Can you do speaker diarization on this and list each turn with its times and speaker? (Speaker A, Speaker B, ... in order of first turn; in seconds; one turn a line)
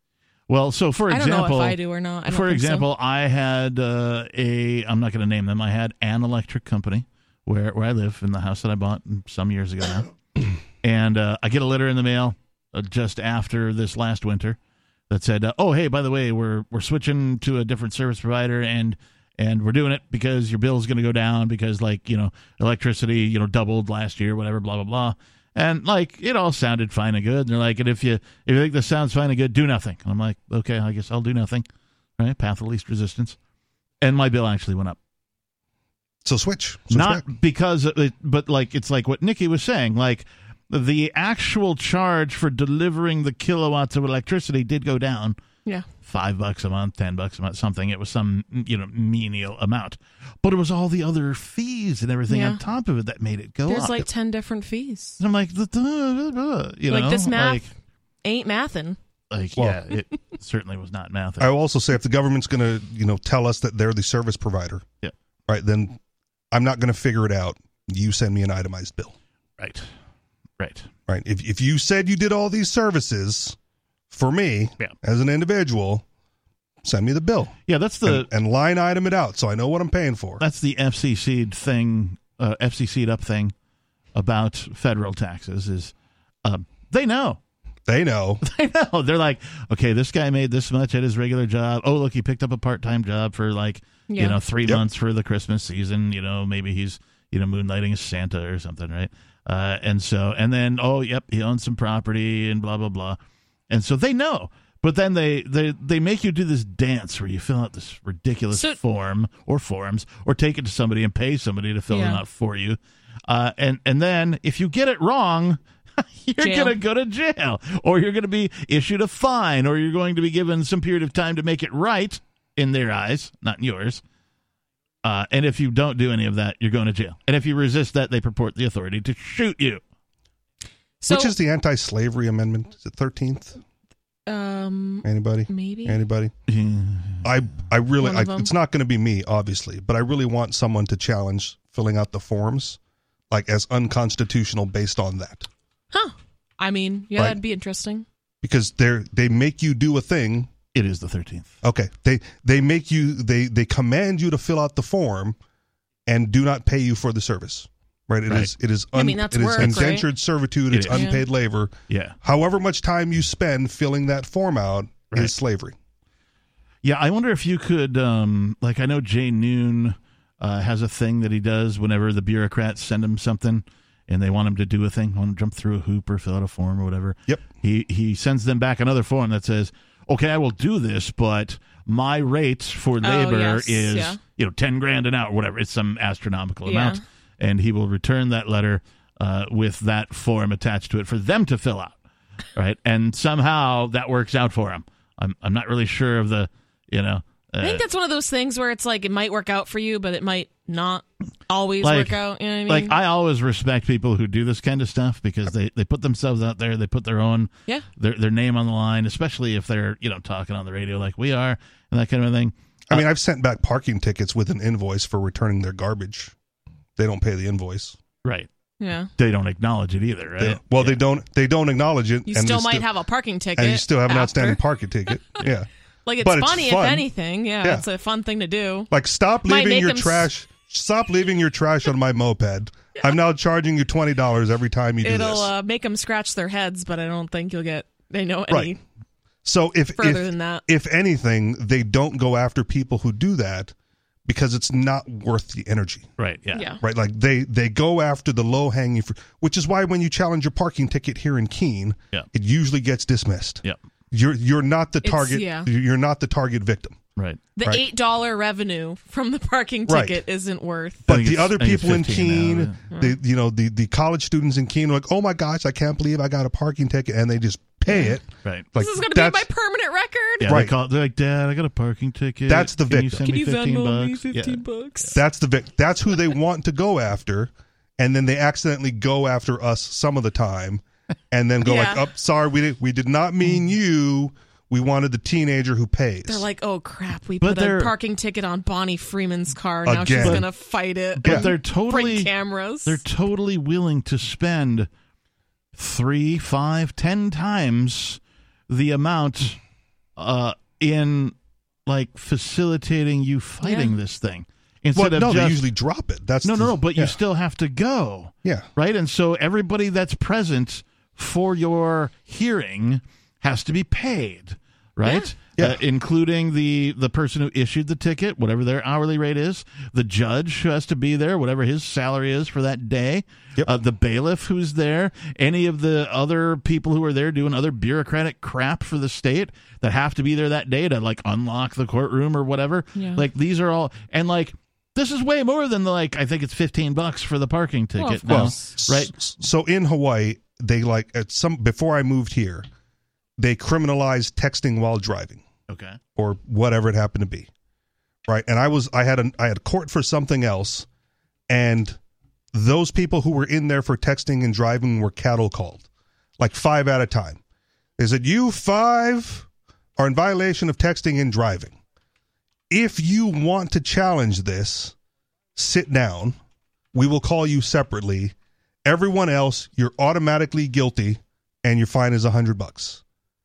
Speaker A: 0.5-10.1
Speaker B: 1.1-2.9
Speaker A: 10.8-14.6
Speaker A: 15.1-31.6
Speaker A: 32.2-33.4
Speaker A: 34.0-35.0
Speaker C: 36.2-37.2
Speaker A: 36.9-45.4
Speaker A: 46.0-54.0
Speaker B: 52.3-52.6
Speaker B: 53.7-55.2
Speaker A: 55.2-57.6
Speaker B: 56.9-57.6
Speaker B: 58.2-59.0
Speaker A: 59.3-61.5
Speaker C: 61.4-64.8
Speaker C: 65.5-66.0
Speaker C: 66.5-69.2
Speaker A: 69.6-69.9
Speaker A: 70.6-70.9
Speaker C: 71.1-73.5
Speaker C: 74.1-76.0
Speaker C: 76.8-80.4
Speaker A: 77.7-78.3
Speaker A: 80.4-83.5
Speaker A: 84.1-85.9
Speaker A: 86.4-87.4
Speaker C: 87.9-88.4
Speaker A: 88.4-103.2
Speaker B: 94.1-94.3
Speaker A: 103.7-124.0
Speaker B: 111.9-112.2
Speaker B: 116.4-116.7
Speaker A: 125.0-129.8
Speaker B: 131.0-131.3
Speaker C: 131.1-133.6
Speaker B: 134.3-136.0
Speaker C: 135.0-136.3
Speaker A: 136.5-137.3
Speaker C: 137.2-142.8
Speaker B: 138.0-138.5
Speaker C: 143.3-145.5
Speaker B: 145.9-148.0
Speaker C: 148.4-150.5
Speaker A: 150.7-151.5
Speaker C: 151.6-155.3
Speaker C: 156.1-165.7
Speaker B: 158.9-160.1
Speaker A: 159.6-159.9
Speaker A: 160.7-161.1
Speaker B: 160.9-161.2
Speaker A: 161.9-162.2
Speaker A: 166.8-191.9
Speaker B: 183.0-184.2
Speaker B: 186.7-187.0
Speaker A: 192.5-197.8
Speaker B: 197.6-203.0
Speaker A: 201.8-213.0
Speaker C: 212.9-216.3
Speaker C: 217.0-218.0
Speaker A: 218.2-218.5
Speaker B: 218.8-219.1
Speaker A: 219.2-221.0
Speaker C: 220.4-222.9
Speaker B: 222.2-224.6
Speaker C: 223.6-225.7
Speaker B: 226.1-228.9
Speaker C: 226.2-227.1
Speaker C: 228.9-235.5
Speaker B: 229.4-230.3
Speaker B: 235.0-238.8
Speaker C: 238.5-238.8
Speaker C: 239.4-243.7
Speaker B: 240.0-240.6
Speaker C: 244.2-246.1
Speaker A: 246.2-246.7
Speaker B: 246.5-246.8
Speaker C: 246.8-257.0
Speaker B: 255.0-255.7
Speaker A: 257.1-257.4
Speaker B: 257.6-261.0
Speaker C: 259.9-260.2
Speaker C: 261.1-269.5
Speaker A: 261.1-262.8
Speaker B: 267.9-268.1
Speaker B: 268.8-270.5
Speaker A: 270.4-274.6
Speaker C: 270.4-270.7
Speaker C: 272.5-273.3
Speaker B: 273.2-275.2
Speaker C: 275.1-286.4
Speaker B: 281.6-282.1
Speaker B: 286.2-293.0
Speaker A: 287.4-287.9
Speaker C: 289.8-290.4
Speaker A: 290.2-290.4
Speaker A: 291.1-292.3
Speaker C: 291.2-291.5
Speaker A: 292.8-294.9
Speaker A: 295.7-299.6
Speaker A: 300.2-301.3
Speaker A: 301.9-305.6
Speaker B: 303.6-303.9
Speaker C: 304.9-307.1
Speaker A: 306.4-339.1
Speaker B: 315.0-315.3
Speaker B: 332.9-333.2
Speaker B: 338.0-338.7
Speaker C: 338.3-342.7
Speaker C: 343.4-345.4
Speaker A: 345.7-346.0
Speaker C: 346.1-347.5
Speaker C: 348.3-350.9
Speaker C: 351.5-352.0
Speaker C: 352.5-355.8
Speaker C: 356.4-357.4
Speaker C: 358.0-361.8
Speaker C: 362.7-364.9
Speaker C: 365.6-366.4
Speaker C: 366.9-373.0